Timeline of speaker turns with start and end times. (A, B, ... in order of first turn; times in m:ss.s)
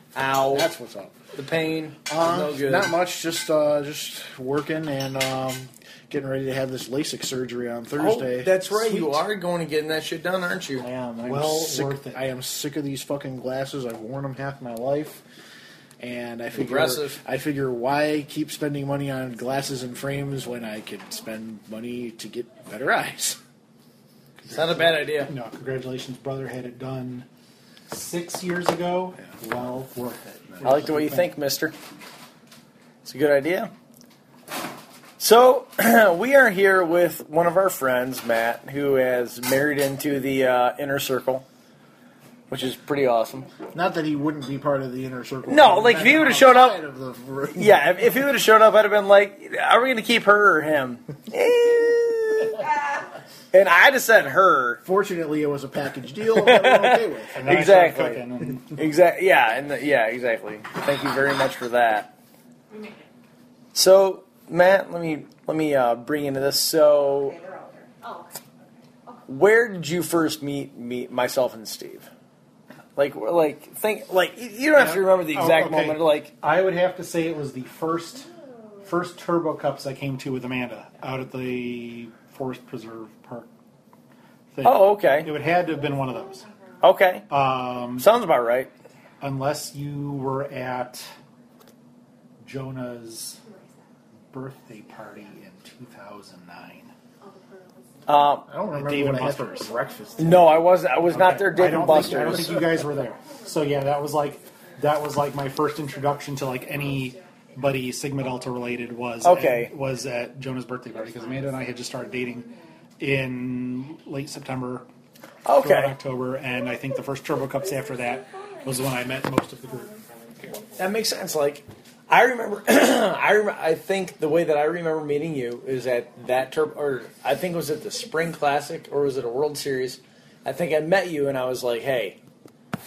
0:00.2-0:00.7 A
0:00.5-0:01.2 B
0:01.3-0:03.0 A
0:02.1-0:09.2 B
0:08.0-0:10.9 A
0:10.8-0:15.2 B
0:11.2-0:12.2 C
0:16.0-0:23.4 B
0:16.5-0:17.2 A
0:24.4-0:27.3 C
0:24.5-0:25.3 A
0:27.9-0:31.3 C
0:30.6-0:31.8 A
0:33.0-0:33.7 A
0:35.2-0:41.5 A
0:42.5-0:43.5 A
0:43.7-0:47.9 B
0:45.5-0:46.8 A
0:47.5-0:52.7 A
0:53.5-0:54.8 A
0:54.8-0:57.5 B
0:56.3-1:02.1 A
0:57.3-0:58.8 C
1:02.7-1:03.0 D
1:03.7-1:07.4 A
1:06.9-1:07.9 E
1:08.0-1:08.3 D
1:09.3-1:12.1 A
1:13.0-1:16.3 A
1:14.8-1:18.3 C
1:18.8-1:23.5 C
1:24.5-1:26.5 C
1:24.6-1:25.3 A
1:26.2-1:26.5 D
1:26.8-1:27.3 A
1:27.3-1:28.1 C
1:28.0-1:28.7 A
1:29.2-1:31.1 C
1:32.4-1:33.4 C
1:33.4-1:33.8 D
1:34.3-1:36.9 C
1:37.2-1:38.1 D
1:38.1-1:39.6 A
1:38.5-1:40.5 B
1:39.5-1:40.6 D
1:40.2-1:42.8 A
1:41.1-1:52.5 C
1:41.9-1:42.5 B
1:43.2-1:43.8 E
1:44.1-1:47.4 D
1:49.2-1:49.7 A
1:51.3-1:51.8 D
1:51.9-1:52.8 E
1:53.0-1:54.9 C
1:55.4-1:56.0 A
1:55.6-2:00.6 C
1:57.6-2:00.9 D
2:00.8-2:12.2 A